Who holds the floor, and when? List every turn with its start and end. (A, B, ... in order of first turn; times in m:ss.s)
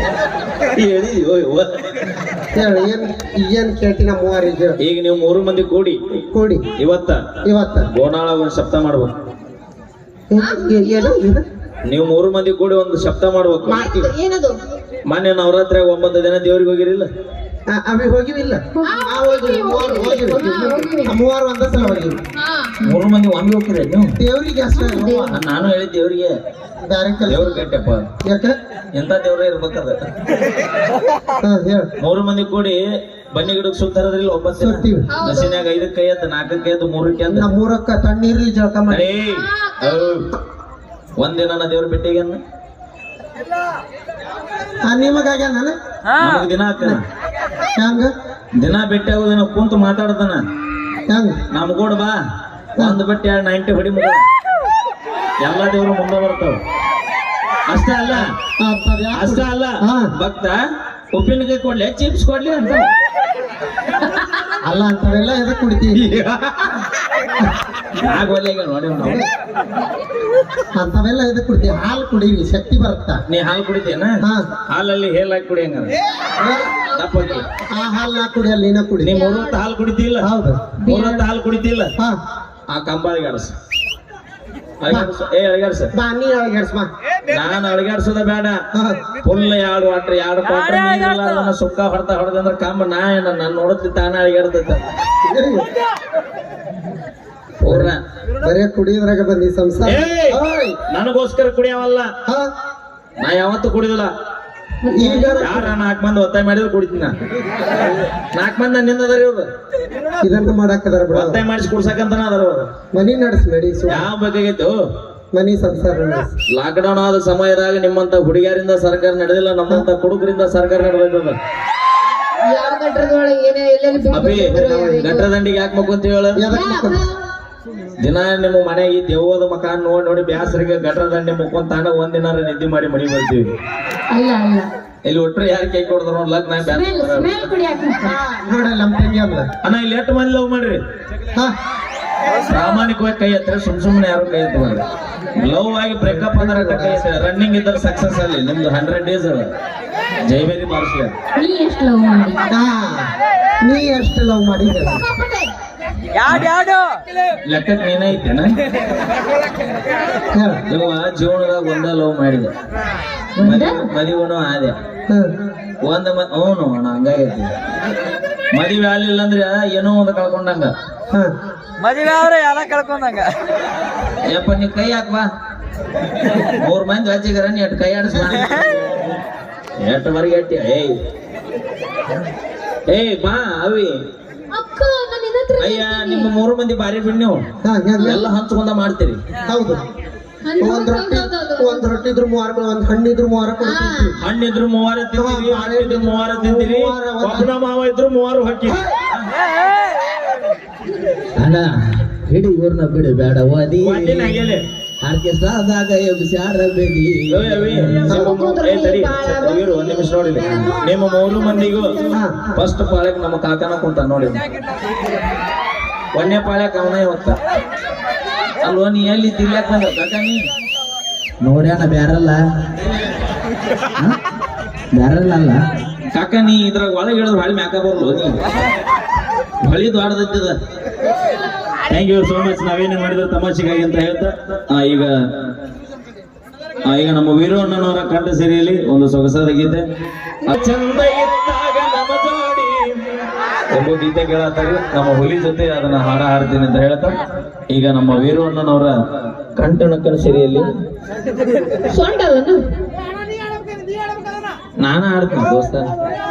0:00.8-0:01.7 A
0:02.5-0:04.8 B
0:04.8-0:06.0 A
0:06.3-0:06.6 B
0:06.8-0:07.2 A
0:07.4-0:07.9 B
0:07.9-0:09.1 A
0:10.3-0:11.4 B
0:10.4-0:11.2 C
0:11.9-0:13.9 A
0:13.6-0:14.6 C
0:15.1-0:17.1 A
0:17.7-0:22.2 B
0:18.8-0:21.1 C
0:22.4-0:22.8 C
0:22.8-0:24.1 A
0:24.2-0:25.4 B
0:24.7-0:25.4 C
0:25.3-0:26.4 A
0:26.8-0:27.6 B
0:27.3-0:28.1 A
0:28.2-0:28.6 B
0:28.9-0:30.0 A
0:31.4-0:31.9 B
0:32.0-0:37.5 A
0:34.6-0:35.1 B
0:35.1-0:35.6 C
0:37.3-0:39.1 B
0:38.9-0:40.3 A
0:39.4-0:40.1 C
0:41.2-0:42.4 A
0:44.8-0:45.7 B
0:46.2-0:47.0 A
0:47.8-0:48.1 B
0:48.6-0:50.4 A
0:51.1-0:51.4 B
0:51.5-0:52.1 A
0:52.8-0:54.2 A
0:55.4-0:56.6 A
0:57.7-0:58.3 A
0:58.1-1:00.1 B
0:59.1-1:00.6 A
1:01.1-1:02.9 A
1:04.6-1:06.0 B
1:06.0-1:06.6 A
1:08.0-1:09.2 A
1:10.7-1:13.2 B
1:13.3-1:14.1 A
1:14.7-1:15.9 A
1:16.4-1:16.8 B
1:16.9-1:17.5 A
1:17.0-1:17.3 C
1:17.7-1:19.2 B
1:19.0-1:20.3 A
1:19.1-1:19.6 C
1:20.2-1:20.8 B
1:20.8-1:21.9 A
1:22.7-1:23.5 A
1:24.8-1:25.9 A
1:25.9-1:26.9 B
1:27.3-1:28.6 A
1:28.7-1:29.0 B
1:29.2-1:34.8 A
1:35.3-1:35.6 B
1:37.6-1:38.0 A
1:37.6-1:40.8 B
1:39.8-1:42.1 A
1:43.2-1:44.1 A
1:44.8-1:45.4 C
1:44.9-1:45.7 B
1:45.3-1:47.1 A
1:48.3-1:49.4 A
1:50.2-1:51.4 B
1:51.1-1:52.7 A
1:52.9-1:54.1 B
1:53.9-1:54.8 A
1:55.3-1:56.3 B
1:56.5-2:01.4 A
2:02.4-2:05.3 C
2:04.1-2:06.4 A
2:06.4-2:07.0 B
2:06.5-2:07.2 C
2:08.0-2:13.5 A
2:14.1-2:14.7 C
2:15.0-2:17.5 A
2:16.6-2:18.2 C
2:18.1-2:19.4 B
2:19.6-2:20.8 A
2:22.4-2:24.8 A
2:25.4-2:29.4 A
2:26.0-2:27.1 B
2:30.3-2:31.1 A
2:31.4-2:32.4 C
2:32.5-2:33.1 B
2:33.6-2:35.1 B
2:34.9-2:35.5 C
2:36.2-2:36.5 A
2:37.4-2:38.5 A
2:40.3-2:40.6 B
2:40.7-2:42.5 A
2:43.4-2:43.8 C
2:43.4-2:44.7 A
2:45.9-2:47.5 A
2:48.5-2:50.7 A
2:52.4-2:52.9 D
2:54.2-2:55.2 A
2:56.6-2:58.7 A
2:59.8-3:00.9 A
3:02.9-3:03.9 A
3:04.5-3:06.3 C
3:05.6-3:07.4 A
3:07.6-3:08.2 B
3:08.0-3:08.3 C
3:08.0-3:09.2 A
3:09.5-3:09.8 B
3:10.4-3:11.9 C
3:10.6-3:14.1 B
3:13.6-3:14.1 C
3:14.2-3:19.3 A
3:15.2-3:17.5 B
3:21.4-3:28.3 D
3:23.8-3:24.6 A
3:27.3-3:32.0 A
3:28.1-3:28.3 B
3:28.1-3:32.2 C
3:32.1-3:32.5 B
3:32.5-3:34.4 A
3:36.1-3:37.4 A
3:38.6-3:40.4 A
3:41.4-3:42.4 D
3:44.9-3:45.6 D
3:46.1-3:48.4 A
3:49.6-3:50.6 A
3:51.9-3:55.1 A
3:56.8-3:59.8 A
4:00.4-4:03.0 A
4:03.7-4:07.2 A
4:07.7-4:08.9 A
4:09.6-4:10.7 A
4:11.9-4:12.6 C
4:14.8-4:15.9 A